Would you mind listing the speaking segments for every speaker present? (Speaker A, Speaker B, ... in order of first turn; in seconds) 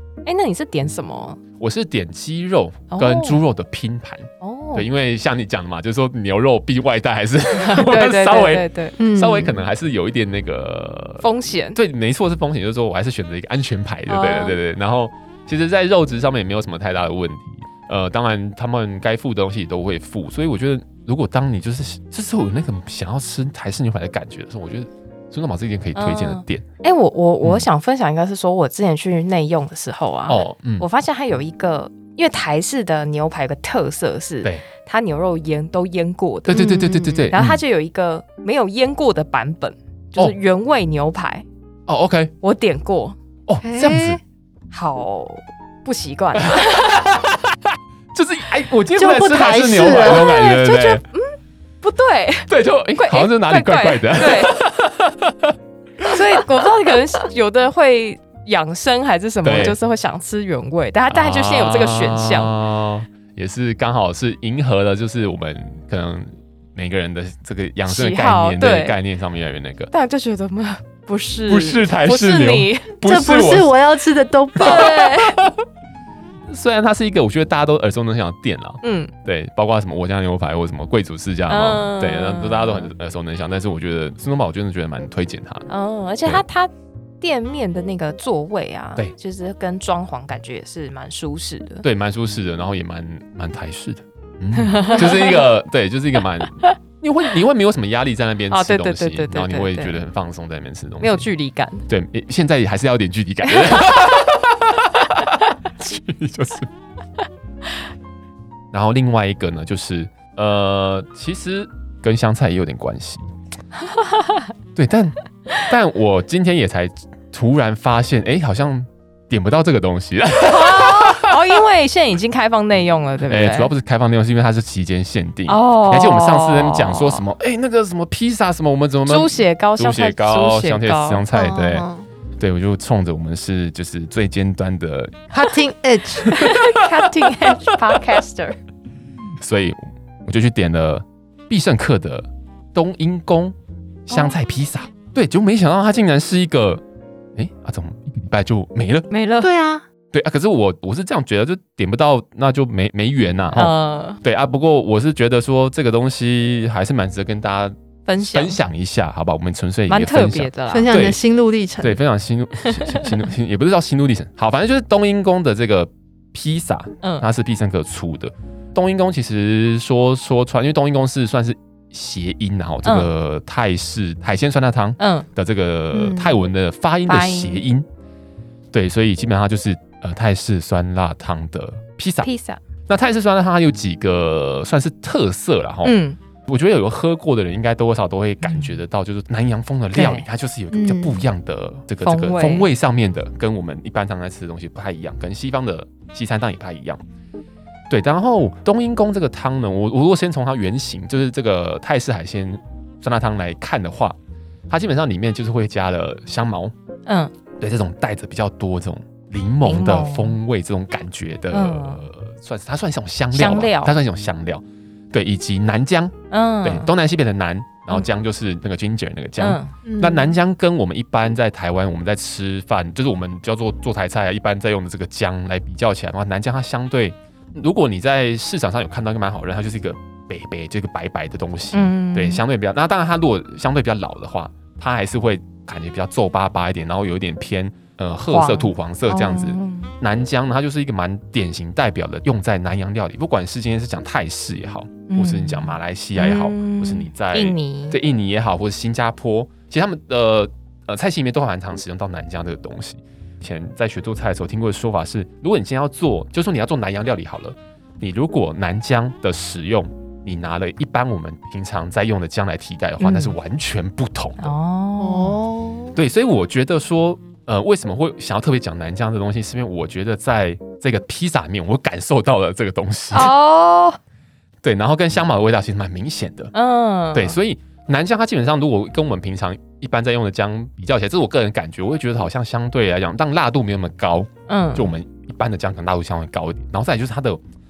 Speaker A: 0.3-1.4, 2.9-3.4, 4.4-4.9, 7.6-9.0, 11.2-11.8, 14.1-14.6, 26.0-41.5, 42.4-43.2, 44.7-47.0, 50.0-54.6, 56.1-62.5, 67.8-69.0, 69.9-73.0, 74.6-75.4, 78.8-79.1, 81.5-82.9, 85.7-91.8, 94.5-95.5, 96.5-96.8, 98.5-100.0, 101.0-101.9, 103.5-104.2, 114.0-114.4, 120.4-123.7, 125.5-127.2, 129.1-131.2, 136.3-138.6, 144.1-144.3, 149.1-149.5, 153.5-154.2, 158.1-158.6, 159.9-160.9, 162.6-163.1, 175.0-175.3, 177.1-177.6, 182.2-182.6, 185.8-186.2, 188.4-188.7, 189.9-190.2, 192.0-192.7, 207.1-207.3, 209.6-210.4, 211.5-212.0, 213.3-213.9, 216.3-216.9, 219.4-219.7, 231.7-232.4, 238.3-239.9, 245.1-248.0, 263.0-263.3, 264.4-265.4, 273.1-274.0, 276.5-277.4, 284.5-284.9
Speaker B: 1.6-26.6, 30.3-30.9, 36.5-37.6, 41.9-42.3, 43.5-44.2, 46.4-51.0, 52.5-56.5, 59.4-59.8, 61.1-69.9, 71.5-73.8, 74.6-75.6, 76.5-85.7, 91.8-101.3, 101.9-106.7, 108.7-113.3, 114.8-121.4, 123.3-131.9, 132.4-135.3, 136.2-136.8, 137.3-138.0, 139.4-143.6, 144.1-146.8, 147.4-149.1, 150.1-161.2, 161.8-177.9, 178.7-182.3, 182.9-186.0, 186.5-197.0, 197.9-204.2, 204.7-206.7, 207.6-264.6, 265.9-273.3, 274.6-276.5, 277.1-287.4
Speaker C: 9.0-9.6, 36.5-37.3, 43.6-44.2, 49.0-50.3, 73.0-75.1, 131.3-132.1, 135.3-136.4, 149.4-149.8, 160.7-162.0, 175.9-176.4, 190.7-191.2, 219.8-220.3, 265.0-266.0